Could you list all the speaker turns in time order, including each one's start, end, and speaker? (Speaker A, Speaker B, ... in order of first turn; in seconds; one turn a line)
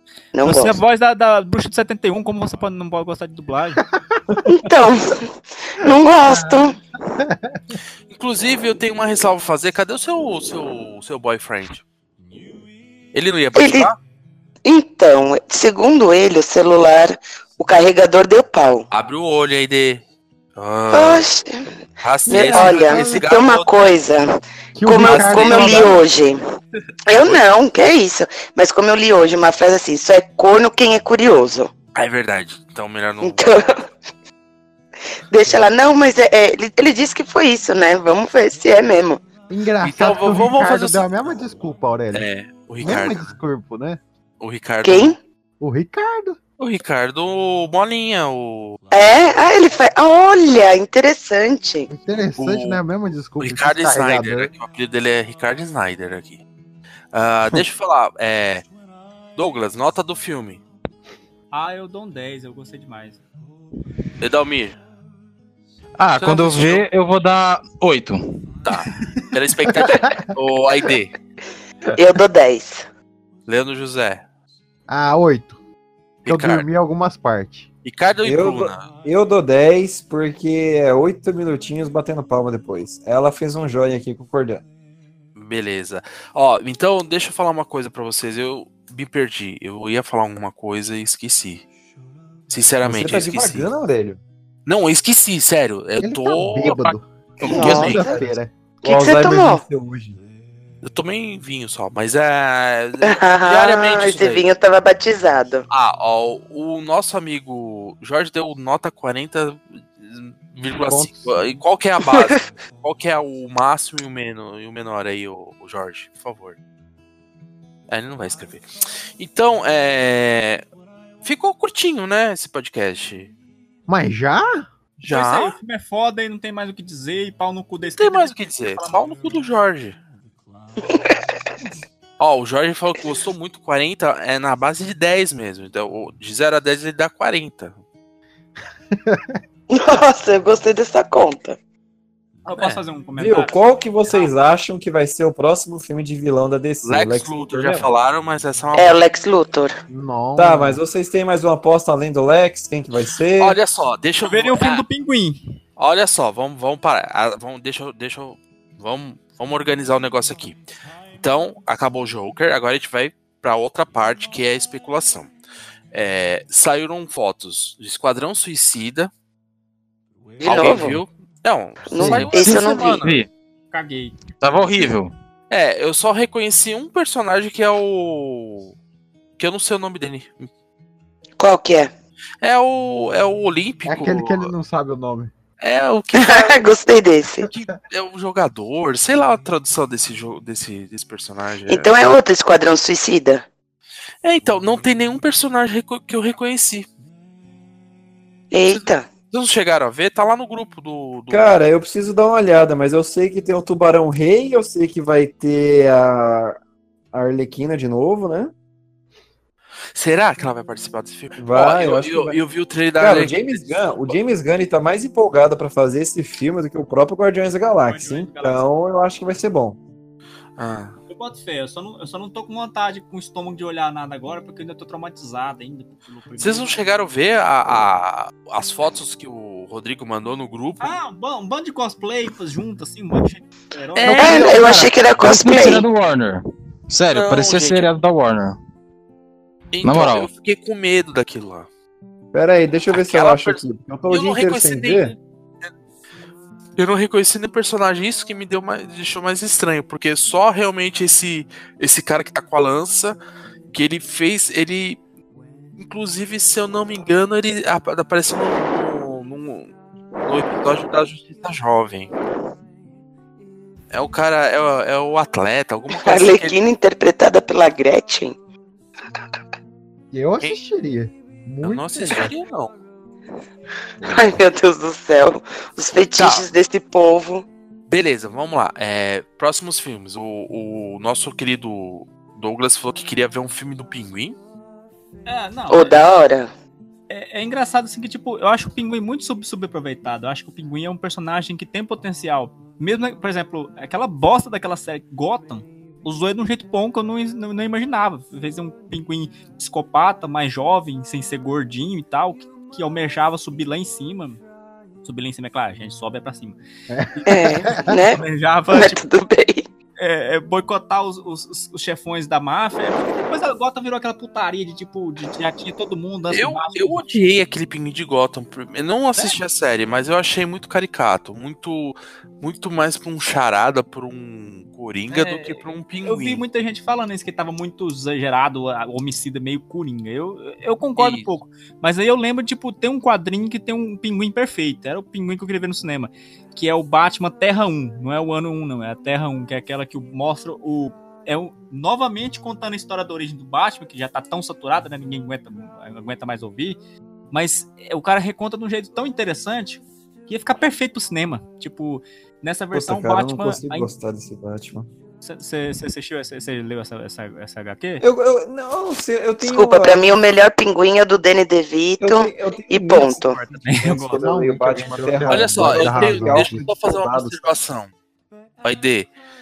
Speaker A: 0.3-0.8
Speaker B: 0.4-3.8
Speaker C: 4.0-4.4
Speaker A: 4.5-6.8
Speaker C: 6.2-7.8
Speaker D: 8.1-11.8
Speaker D: 13.1-14.0
Speaker A: 13.5-13.9
Speaker A: 14.7-18.9
Speaker D: 18.9-20.0
Speaker D: 20.6-21.3
Speaker A: 20.9-21.5
Speaker D: 22.0-23.9
Speaker A: 22.3-24.3
Speaker C: 22.3-23.2
Speaker E: 22.4-22.6
Speaker C: 24.8-26.0
Speaker A: 24.8-26.4
Speaker D: 25.0-26.0
Speaker A: 27.1-31.7
Speaker D: 27.1-27.4
Speaker D: 31.9-33.5
Speaker A: 33.2-33.8
Speaker A: 35.3-39.2
Speaker C: 39.5-42.3
Speaker D: 39.8-41.4
Speaker D: 42.1-43.3
Speaker C: 42.8-44.0
Speaker D: 44.4-45.1
Speaker A: 44.8-45.2
Speaker C: 45.6-46.4
Speaker D: 46.6-48.8
Speaker A: 48.9-51.9
Speaker C: 51.9-54.5
Speaker D: 52.4-52.8
Speaker D: 53.4-56.4
Speaker D: 57.1-58.6
Speaker D: 59.4-60.6
Speaker B: 61.5-63.2
Speaker D: 64.2-64.8
Speaker F: 66.0-68.2
Speaker D: 66.1-66.8
Speaker D: 68.7-71.1
Speaker C: 69.7-70.3
Speaker A: 72.0-72.9
Speaker D: 73.5-74.2
Speaker C: 74.9-75.6
Speaker D: 76.2-76.7
Speaker C: 76.3-77.7
Speaker D: 77.8-78.9
Speaker E: 78.2-84.6
Speaker D: 85.4-91.7
Speaker D: 92.5-93.7
Speaker E: 92.8-94.2
Speaker D: 94.7-98.0
Speaker C: 96.0-98.5
Speaker A: 97.5-99.6
Speaker E: 98.8-100.2
Speaker D: 100.8-104.5
Speaker A: 103.0-105.7
Speaker D: 105.7-116.6
Speaker C: 110.9-111.6
Speaker A: 112.0-112.3
Speaker D: 117.9-118.7
Speaker D: 119.2-120.6
Speaker D: 121.2-123.3
Speaker C: 123.9-124.7
Speaker D: 125.0-125.6
Speaker B: 125.1-129.2
Speaker D: 128.0-130.0
Speaker A: 130.9-131.1
Speaker D: 132.2-137.8
Speaker C: 138.9-139.4
Speaker A: 139.7-141.6
Speaker B: 142.5-143.6
Speaker E: 143.2-147.9
Speaker D: 146.8-149.0
Speaker A: 148.7-149.8
Speaker C: 149.9-150.8
Speaker E: 150.4-153.6
Speaker D: 153.4-154.8
Speaker B: 154.2-155.4
Speaker D: 155.8-160.6
Speaker D: 161.2-165.3
Speaker D: 165.9-169.1
Speaker A: 170.4-171.0
Speaker D: 170.4-173.2
Speaker A: 171.9-173.1
Speaker C: 172.0-172.3
Speaker F: 172.3-173.3
Speaker B: 173.7-174.2
Speaker F: 174.4-175.1
Speaker D: 175.5-178.8
Speaker D: 179.4-180.5
Speaker A: 181.4-181.9
Speaker D: 182.4-184.5
Speaker C: 183.9-185.3
Speaker D: 185.6-186.6
Speaker A: 186.2-187.5
Speaker C: 187.5-187.7
Speaker D: 187.5-191.9
Speaker A: 191.7-193.4
Speaker D: 194.2-196.9
Speaker A: 198.5-199.1
Speaker D: 198.7-201.6
Speaker E: 201.3-206.6
Speaker E: 207.1-208.5
Speaker D: 209.9-214.2
Speaker E: 211.4-212.4
Speaker E: 213.0-219.8
Speaker B: 217.8-218.7
Speaker D: 220.6-221.0
Speaker B: 221.1-226.8
Speaker D: 226.4-230.9
Speaker B: 230.8-235.1
Speaker D: 234.0-234.9
Speaker A: 234.1-235.8
Speaker F: 234.5-238.6
Speaker D: 237.1-237.9
Speaker D: 239.7-241.7
Speaker F: 239.8-240.3
Speaker E: 242.3-245.1
Speaker D: 242.9-245.2
Speaker D: 246.8-253.2
Speaker D: 253.7-255.0
Speaker D: 255.8-259.7
Speaker D: 260.2-262.1
Speaker D: 263.9-266.6
Speaker A: 265.9-268.4
Speaker C: 270.1-272.3
Speaker D: 271.6-272.7
Speaker A: 274.1-277.5
Speaker D: 276.2-276.4
Speaker D: 277.9-284.4
Speaker B: 285.3-286.0
Speaker A: 285.7-286.5
Speaker B: 287.1-304.4
Speaker B: 305.0-306.6
Speaker C: 306.9-307.9
Speaker B: 307.1-309.0
Speaker A: 307.3-309.7
Speaker B: 310.0-317.1
Speaker D: 316.3-326.4
Speaker B: 325.1-346.8
Speaker D: 331.0-331.3
Speaker B: 347.3-353.9
Speaker E: 352.7-354.9
Speaker B: 355.2-358.0
Speaker E: 358.0-360.2
Speaker A: 359.4-363.4
Speaker E: 362.0-367.4
Speaker B: 363.5-364.2
Speaker C: 364.1-366.7
Speaker D: 365.3-367.9
Speaker D: 368.6-369.1